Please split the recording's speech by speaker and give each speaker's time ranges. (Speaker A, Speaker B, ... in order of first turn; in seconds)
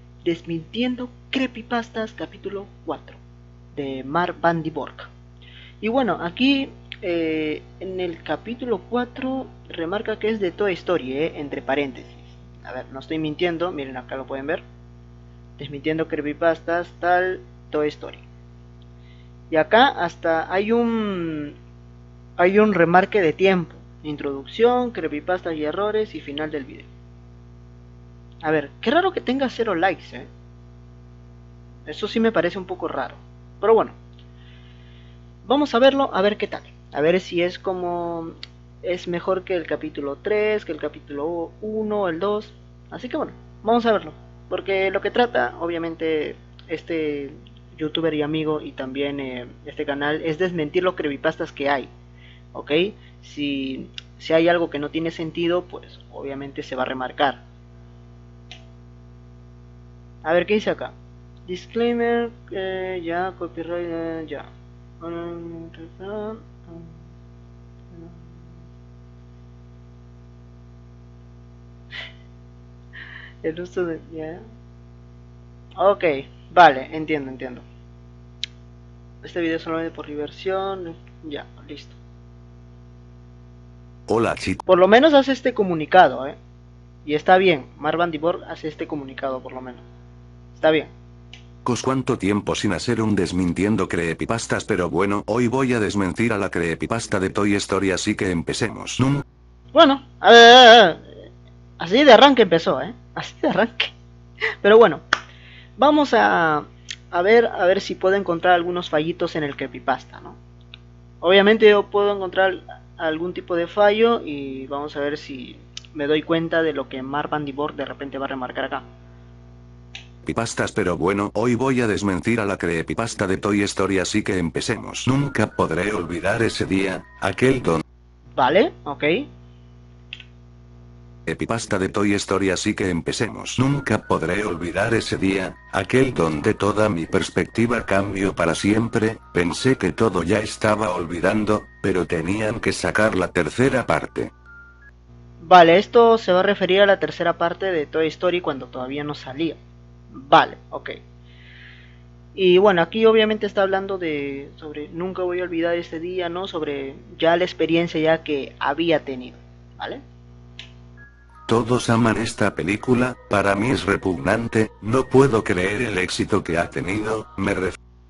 Speaker A: 0.2-3.2, 3.8-5.1, 5.8-14.6, 15.6-18.2, 19.5-21.6, 22.4-26.9, 28.4-30.3, 31.9-34.0, 35.4-51.9, 52.5-57.4, 60.2-60.9, 61.5-64.5, 65.0-67.0, 67.9-68.2, 73.4-74.4, 75.8-77.7, 79.2-82.0, 84.7-86.4, 87.0-89.8, 90.6-90.9, 99.7-101.0, 101.8-103.9, 104.6-105.0, 105.8-110.4, 111.2-118.8, 128.4-129.3, 145.4-149.6, 150.1-151.0, 152.3-160.0
Speaker B: 84.1-84.6, 91.6-99.2, 120.2-127.8, 131.3-144.3, 161.5-167.8